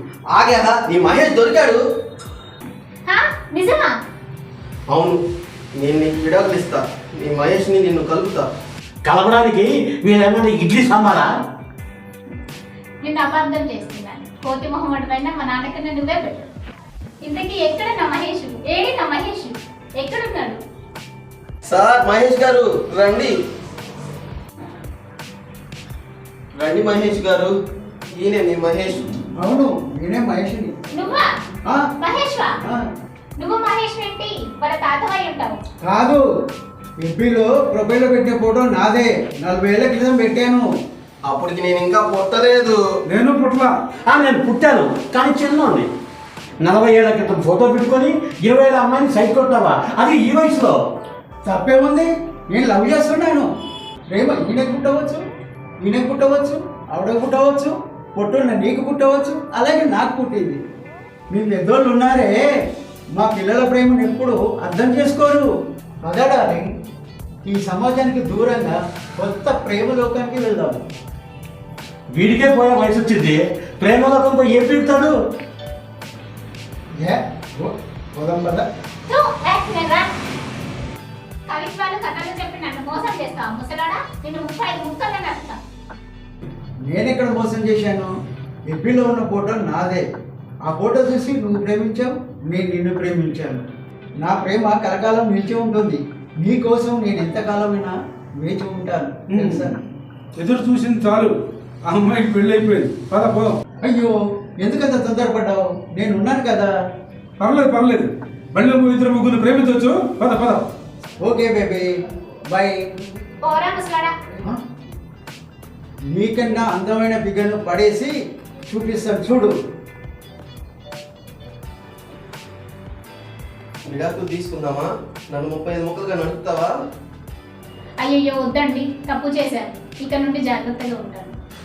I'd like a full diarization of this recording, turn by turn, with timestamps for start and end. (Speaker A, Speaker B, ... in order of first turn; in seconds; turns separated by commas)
Speaker A: 0.3-1.8, Speaker B: 3.0-3.9, Speaker A: 4.9-5.2, Speaker A: 5.8-8.5, Speaker C: 9.0-11.3, Speaker B: 13.0-16.5, Speaker B: 17.2-20.6, Speaker A: 21.7-23.3, Speaker A: 26.6-27.5, Speaker A: 28.2-29.1, Speaker D: 29.4-30.7, Speaker B: 30.9-31.3, Speaker B: 32.0-32.5, Speaker B: 33.4-35.6, Speaker D: 35.8-36.2, Speaker D: 37.0-40.7, Speaker A: 41.3-42.8, Speaker E: 43.1-43.7, Speaker C: 44.1-45.9, Speaker C: 46.6-50.8, Speaker D: 51.5-53.5, Speaker D: 54.1-55.2, Speaker D: 55.8-60.6, Speaker D: 61.3-62.4, Speaker D: 63.1-65.5, Speaker D: 66.0-66.7, Speaker D: 67.4-70.8, Speaker C: 72.1-75.2, Speaker D: 77.0-78.7, Speaker B: 79.1-80.1, Speaker B: 81.5-85.6, Speaker D: 86.9-88.1, Speaker D: 88.7-90.0, Speaker D: 90.7-93.6, Speaker D: 94.2-99.8, Speaker E: 99.3-99.7, Speaker E: 100.3-103.6, Speaker D: 103.8-106.7, Speaker E: 107.4-110.7, Speaker D: 111.2-111.9, Speaker D: 112.5-112.9, Speaker B: 113.4-114.1, Speaker D: 116.1-118.1, Speaker D: 118.7-119.5, Speaker A: 123.9-126.7, Speaker B: 128.0-131.3